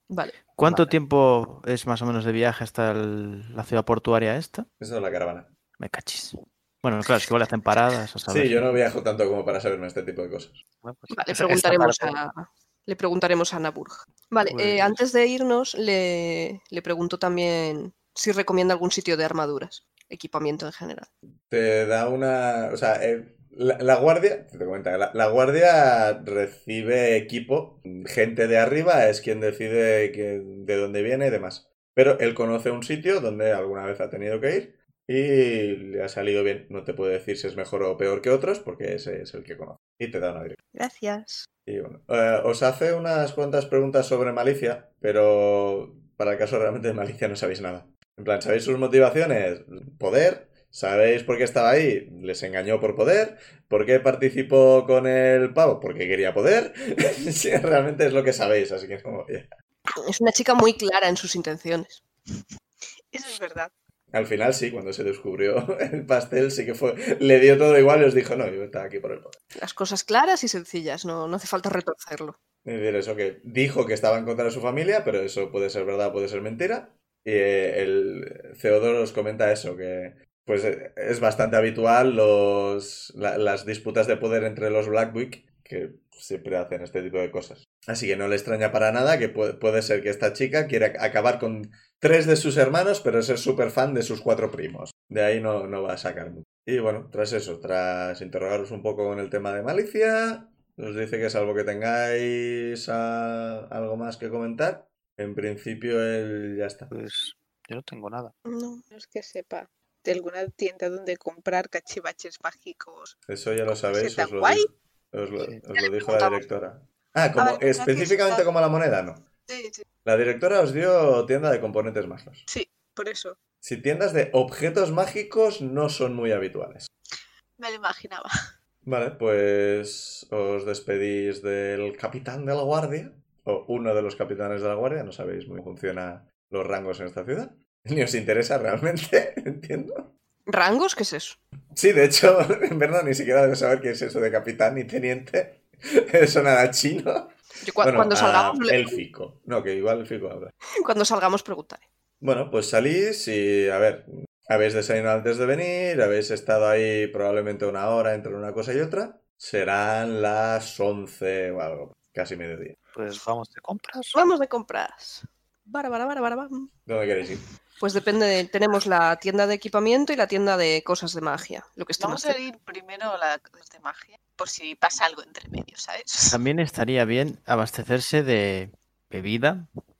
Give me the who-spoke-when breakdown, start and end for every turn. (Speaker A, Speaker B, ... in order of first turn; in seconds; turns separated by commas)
Speaker A: 0.1-0.4, Speaker B: 0.6-4.7, Speaker C: 0.6-0.9, Speaker D: 4.8-5.5, Speaker B: 5.8-8.8, Speaker D: 8.3-10.6, Speaker C: 10.8-12.2, Speaker A: 11.1-21.1, Speaker D: 14.6-14.9, Speaker D: 21.5-40.6, Speaker E: 40.8-41.5, Speaker D: 41.7-59.5, Speaker A: 60.0-62.0, Speaker E: 63.1-63.7, Speaker D: 64.1-69.4, Speaker A: 69.6-72.4, Speaker D: 72.7-106.9, Speaker C: 106.9-108.3, Speaker A: 108.5-108.8, Speaker E: 108.9-113.2, Speaker D: 113.3-119.2, Speaker E: 113.8-114.7, Speaker A: 115.8-116.4, Speaker E: 117.4-118.5, Speaker E: 119.5-119.8, Speaker D: 120.0-122.4, Speaker E: 122.5-123.4, Speaker D: 123.6-126.9, Speaker E: 127.6-128.3, Speaker D: 128.8-140.1, Speaker A: 140.5-141.4, Speaker D: 141.8-150.5, Speaker A: 147.6-149.0, Speaker A: 150.8-151.8, Speaker D: 152.2-162.8, Speaker C: 162.9-164.2, Speaker A: 164.1-166.7, Speaker D: 166.9-167.4, Speaker A: 167.8-172.4, Speaker E: 172.0-176.4, Speaker B: 176.3-179.7